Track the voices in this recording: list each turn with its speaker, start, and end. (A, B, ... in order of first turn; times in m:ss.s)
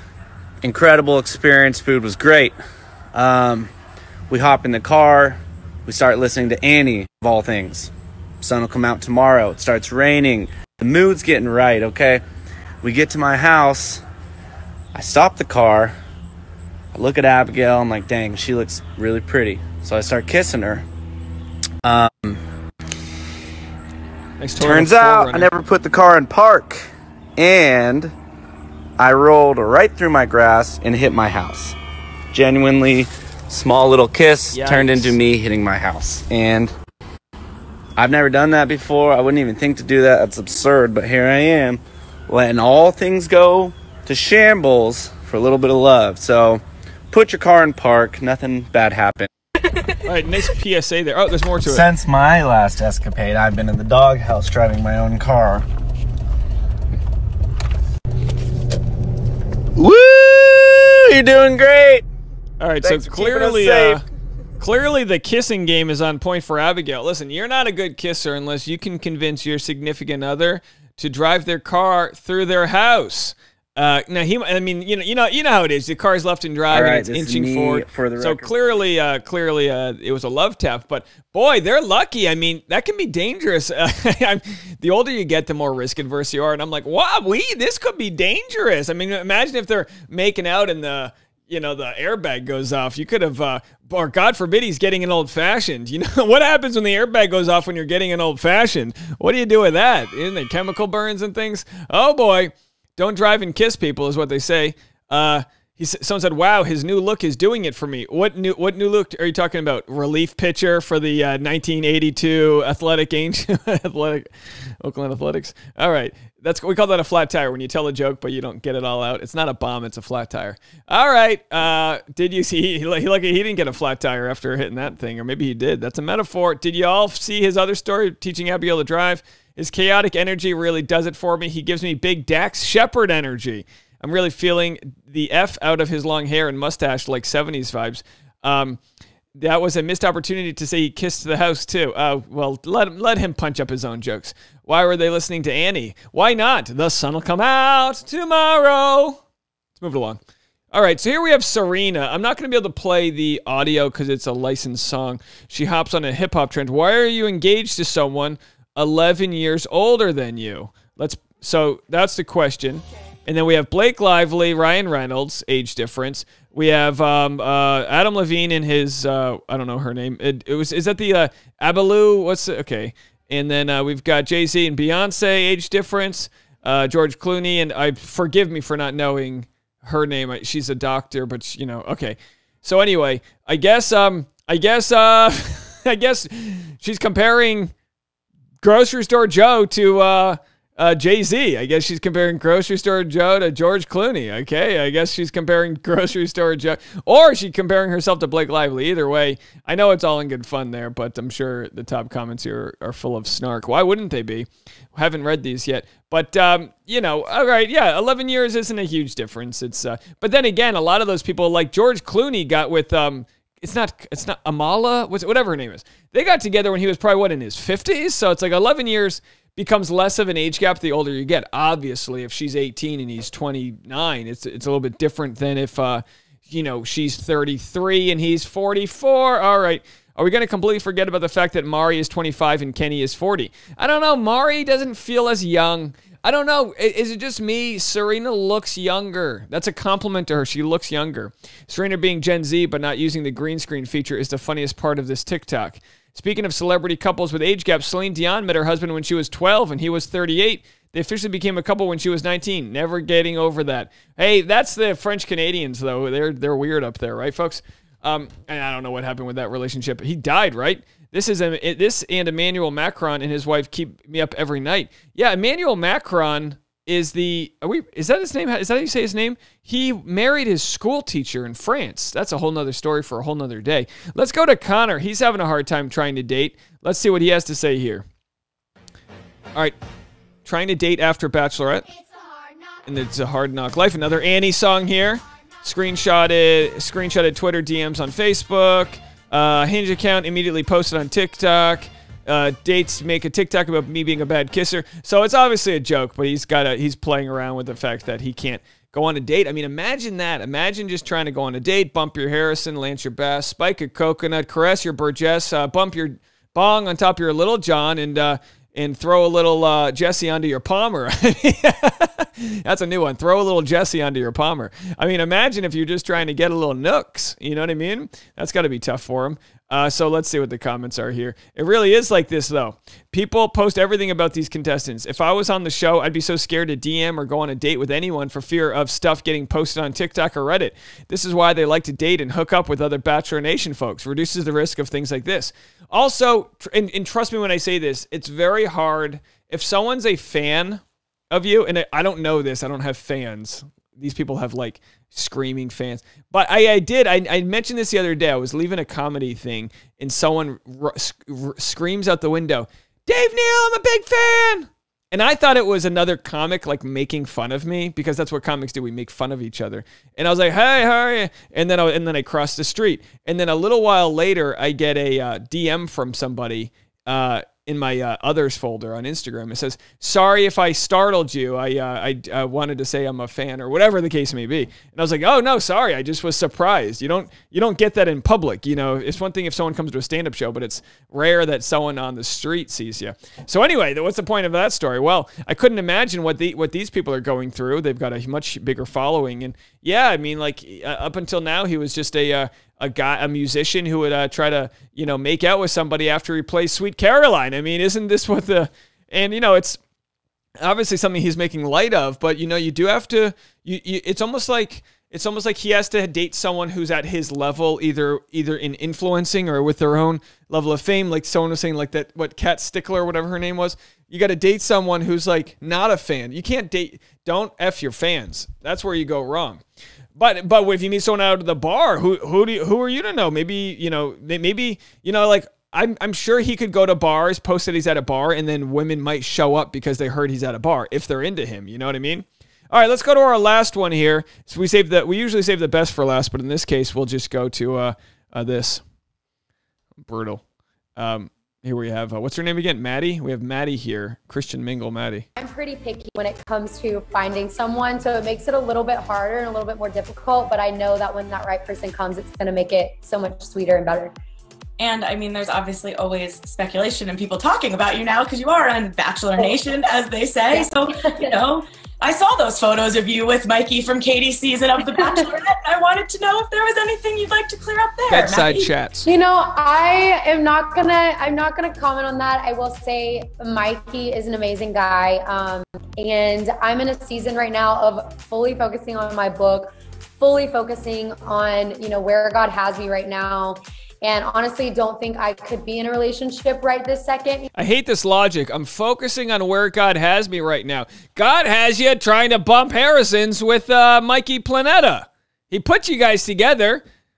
0:00.6-0:02.6 A
0:03.1-0:03.7 A
0:04.3-0:12.2 A
0:12.8-0:14.0 A
0:14.9-0:15.9 A
0:16.9-0:20.8 A
0:21.8-0:22.4 A
0:24.4-0:25.5 B
0:24.6-0:26.8 A
0:27.4-0:28.1 A
0:29.0-0:31.8 A
0:32.3-0:36.7 A
0:34.5-0:35.2 B
0:38.0-0:49.3 A
0:49.9-0:51.9 B
0:51.6-0:55.6 A
0:59.8-1:02.0 A
1:02.6-1:04.0 B
1:02.8-1:04.0 A
1:04.6-2:18.8 B
1:16.7-1:18.7 A
2:19.4-2:29.2 B
2:29.7-2:30.2 B
2:30.7-3:07.7 B
3:08.6-4:38.0 B
4:40.4-4:41.9 B
4:42.8-6:39.8 B
6:40.6-6:59.6 B
7:00.2-7:18.8 B
7:20.0-7:20.4 B
7:21.0-7:25.2 B
7:25.4-7:34.1 C
7:34.8-7:48.6 D
7:40.5-7:41.3 C
7:44.8-7:45.3 C
7:48.1-7:49.1 B
7:49.0-8:07.5 C
8:07.6-8:16.8 B